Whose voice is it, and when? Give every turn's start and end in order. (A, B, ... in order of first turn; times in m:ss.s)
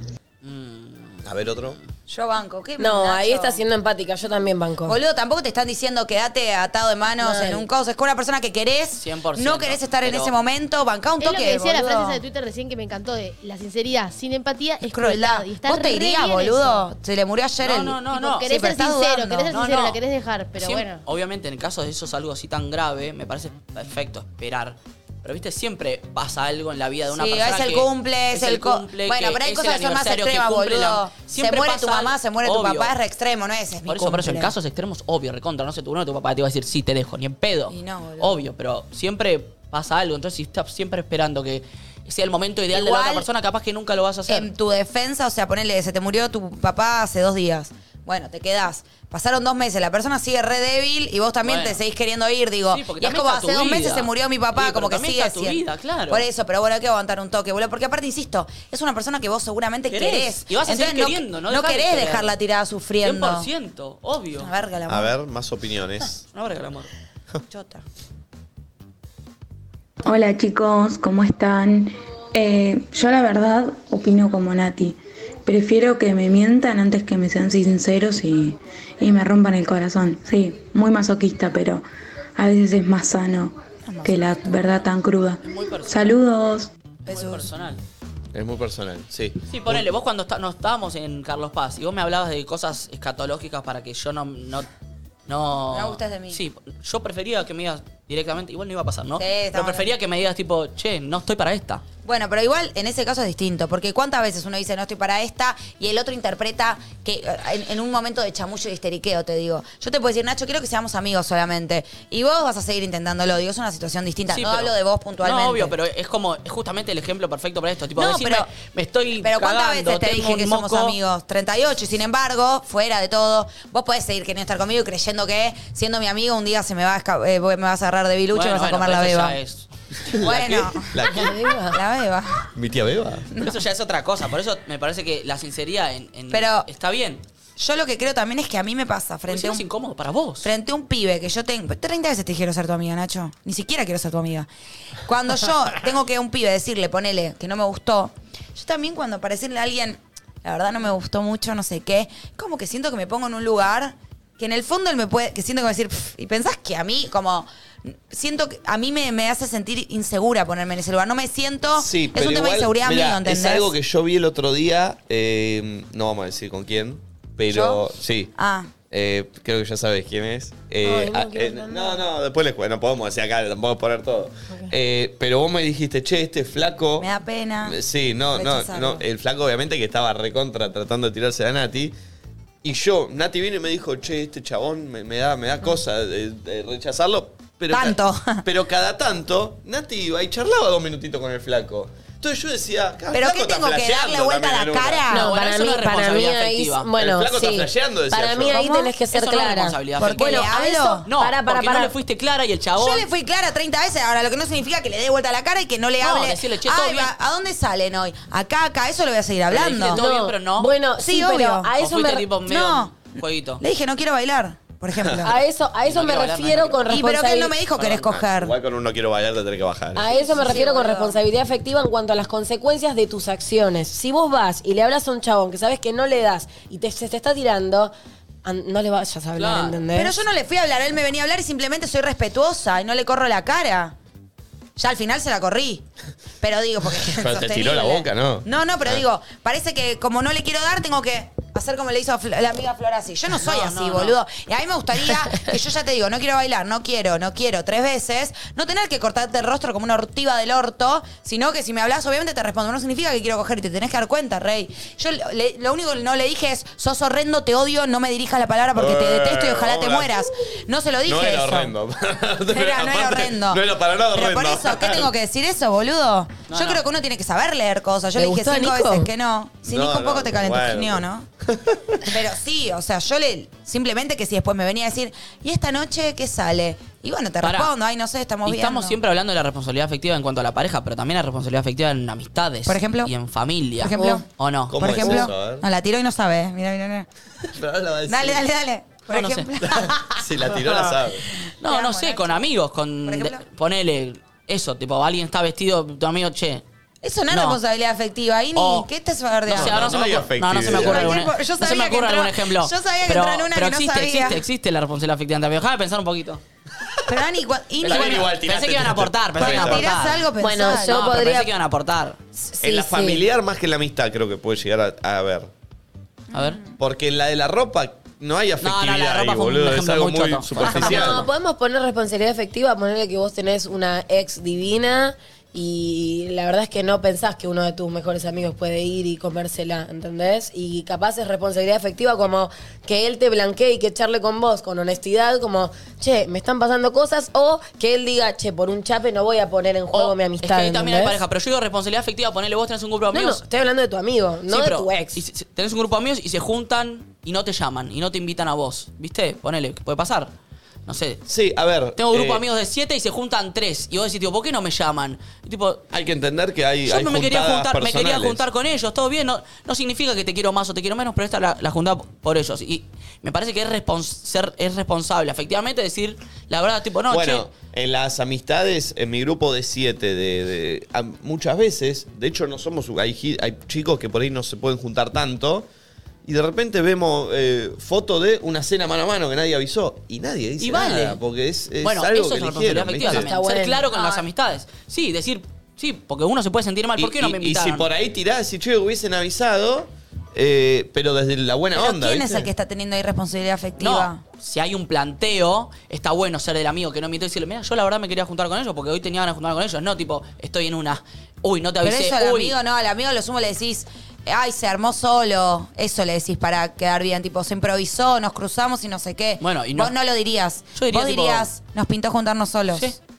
0:00.4-0:01.8 A
0:01.2-0:01.8 B
0:02.1-0:03.6 C
0:02.8-0:05.0 D
0:04.8-0:12.2 C
0:07.2-0:07.6 D
0:09.0-0:10.3 A
0:11.2-0:16.8 E
0:14.8-0:19.5 C
0:17.6-0:18.5 A
0:18.1-0:21.0 E
0:19.5-0:20.0 A
0:20.6-0:32.9 A
0:27.1-0:34.5 C
0:33.8-0:44.5 A
0:37.7-0:38.4 C
0:42.7-0:43.3 C
0:44.3-1:03.5 C
0:51.4-0:51.8 A
0:52.7-0:56.2 A
0:59.9-1:02.3 A
1:03.0-1:04.5 A
1:04.4-1:05.1 C
1:04.9-1:06.2 B
1:06.3-1:06.9 A
1:07.5-1:07.8 C
1:10.0-1:21.8 F
1:22.4-1:26.7 F
1:23.8-1:24.2 C
1:25.4-1:26.2 A
1:27.0-1:27.8 A
1:27.0-1:27.5 C
1:28.3-1:29.9 B
1:29.5-1:34.7 A
1:35.3-1:41.8 A
1:35.7-1:36.4 C
1:39.2-1:39.9 C
1:42.0-1:55.8 C
1:54.3-2:01.0 A
1:58.0-1:58.5 C
1:59.2-2:09.4 C
2:08.3-2:09.7 A
2:10.0-2:11.4 B
2:10.2-2:11.1 C
2:11.1-2:11.8 D
2:11.7-2:12.5 C
2:12.5-2:13.3 B
2:13.4-2:17.2 A
2:16.3-2:16.7 C
2:17.6-2:19.6 C
2:19.3-2:20.5 A
2:20.4-2:24.5 C
2:25.0-2:43.7 C
2:41.8-2:48.3 B
2:47.5-2:48.7 C
2:48.9-2:57.1 B
2:50.8-2:52.0 D
2:57.0-2:57.8 C
2:57.6-3:01.9 B
2:58.3-2:59.0 C
3:02.6-3:15.1 B
3:07.7-3:08.4 C
3:13.1-3:15.3 C
3:15.1-3:16.9 A
3:15.1-3:21.9 D
3:17.0-3:18.6 B
3:18.5-3:18.9 C
3:19.1-3:23.0 A
3:20.0-3:21.1 C
3:22.8-3:30.0 C
3:26.0-3:27.1 A
3:29.5-3:30.7 A
3:29.9-3:32.3 D
3:31.0-3:31.7 C
3:31.8-3:33.6 A
3:32.4-3:35.4 C
3:34.9-3:35.2 B
3:35.2-3:37.6 D
3:35.8-3:37.0 A
3:36.9-3:38.6 C
3:37.7-3:38.2 A
3:38.2-3:40.1 B
3:39.9-3:47.9 D
3:40.2-3:41.2 A
3:40.3-3:40.9 C
3:48.4-3:50.2 D
3:49.3-3:49.8 A
3:49.9-3:54.0 C
3:54.8-3:55.8 C
3:56.4-4:21.7 C
3:57.0-3:59.0 B
4:03.4-4:04.2 A
4:18.8-4:20.3 B
4:21.1-4:25.1 B
4:22.5-4:31.3 C
4:26.5-4:26.8 A
4:28.2-4:29.1 D
4:29.6-4:32.1 B
4:32.0-4:39.0 C
4:37.4-4:37.7 A
4:38.4-4:45.1 A
4:42.6-4:43.1 C
4:43.8-4:44.2 C
4:44.0-4:44.2 D
4:44.7-4:45.6 B
4:44.8-4:47.1 C
4:47.5-4:48.4 B
4:48.1-4:50.0 C
4:49.1-4:50.0 A
4:49.8-4:51.3 B
4:51.6-4:56.6 A
4:51.6-4:52.5 C
4:53.0-4:53.4 C
4:57.0-5:00.0 C
4:57.3-4:57.6 A
4:58.5-4:58.9 A
4:59.5-5:06.4 A
4:59.5-5:01.2 B
5:00.6-5:04.4 C
5:07.1-5:08.4 C
5:07.8-5:09.9 B
5:07.8-5:12.2 A
5:09.4-5:11.2 C
5:10.4-5:11.5 D
5:12.4-5:13.2 D
5:12.6-5:15.5 B
5:16.3-5:16.7 C
5:16.3-5:16.6 A
5:16.8-5:21.3 B
5:18.6-5:21.1 A
5:20.6-5:21.2 C
5:20.6-5:41.2 D
5:39.9-5:43.4 A
5:43.1-5:45.2 D
5:44.5-5:50.3 A
5:50.9-5:51.2 A
5:51.2-5:52.4 B
5:52.0-5:55.8 A
5:55.9-5:58.4 B
5:56.8-6:07.5 A
6:07.1-6:15.6 B
6:16.2-6:23.3 B
6:20.6-6:21.2 A
6:21.8-6:27.9 A
6:23.0-6:23.9 D
6:23.9-6:24.3 C
6:27.0-6:32.5 B
6:31.7-6:34.2 C
6:33.8-6:42.5 A
6:41.8-6:53.0 C
6:49.4-6:49.9 A
6:50.7-6:51.5 A